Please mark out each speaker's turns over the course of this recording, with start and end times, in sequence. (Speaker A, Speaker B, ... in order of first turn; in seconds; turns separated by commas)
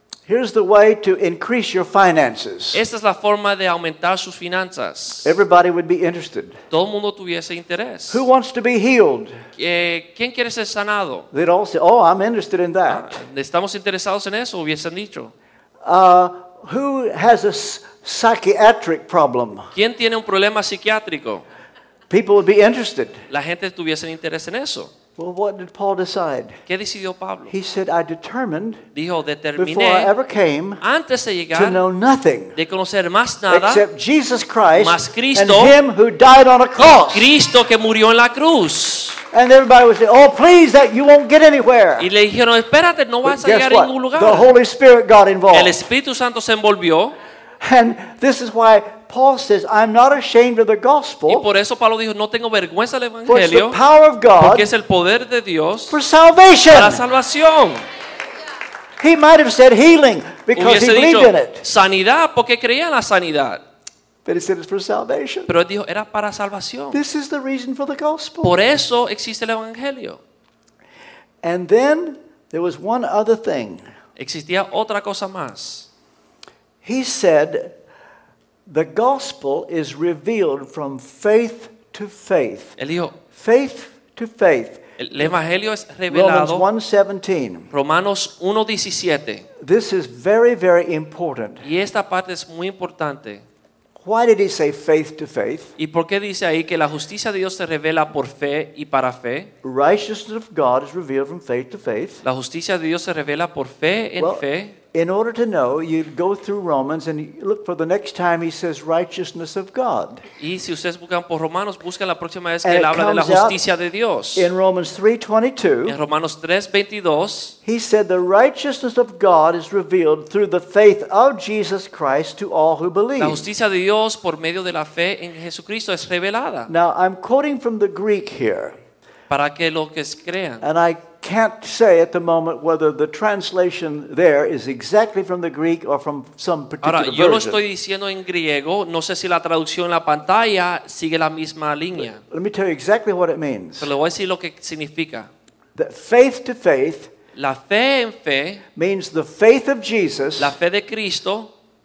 Speaker A: 0.3-2.8, Speaker B: 2.7-5.3, Speaker A: 5.2-6.6, Speaker B: 6.7-8.2, Speaker A: 8.1-9.4, Speaker B: 9.6-11.3, Speaker A: 11.3-13.2, Speaker B: 12.9-15.3, Speaker A: 15.8-19.7, Speaker B: 19.7-21.4, Speaker A: 22.1-23.2, Speaker B: 23.3-24.9, Speaker A: 25.2-26.6, Speaker B: 26.7-27.5, Speaker A: 27.5-28.8, Speaker B: 28.9-30.1, Speaker A: 29.6-30.8, Speaker B: 30.8-31.8, Speaker A: 31.5-32.5, Speaker B: 32.5-33.8, Speaker A: 33.5-37.3, Speaker B: 34.8-35.8, Speaker B: 36.8-39.2, Speaker A: 39.3-42.1, Speaker B: 42.0-44.5, Speaker A: 43.2-45.8, Speaker B: 45.5-47.1, Speaker A: 47.6-51.5, Speaker B: 51.3-53.8, Speaker A: 53.3-54.7, Speaker B: 54.4-56.0, Speaker A: 55.9-57.0, Speaker B: 56.7-57.8, Speaker A: 59.0-61.6, Speaker B: 60.5-63.6, Speaker A: 64.2-65.5, Speaker B: 65.5-67.0, Speaker A: 66.9-68.6, Speaker B: 68.4-70.2, Speaker A: 71.4-73.8, Speaker B: 74.2-75.9, Speaker A: 76.8-77.7, Speaker A: 78.7-82.8, Speaker B: 82.8-83.2, Speaker A: 83.3-84.8, Speaker B: 85.0-86.7, Speaker A: 86.1-87.7, Speaker B: 87.7-89.5, Speaker A: 89.6-91.6, Speaker B: 91.6-93.4, Speaker A: 94.0-95.7, Speaker B: 95.8-99.5, Speaker A: 99.6-102.2, Speaker B: 102.2-104.8, Speaker A: 104.2-110.2, Speaker B: 110.4-114.5, Speaker A: 112.6-113.6, Speaker A: 114.3-116.0, Speaker B: 115.8-117.5, Speaker A: 117.6-123.5, Speaker B: 123.2-126.7, Speaker A: 126.7-128.8, Speaker B: 129.3-130.7, Speaker A: 130.6-137.6, Speaker B: 136.8-142.2, Speaker A: 142.2-143.9, Speaker B: 143.8-145.3, Speaker A: 145.7-147.1, Speaker B: 147.3-148.6, Speaker A: 148.8-150.6, Speaker B: 150.4-151.5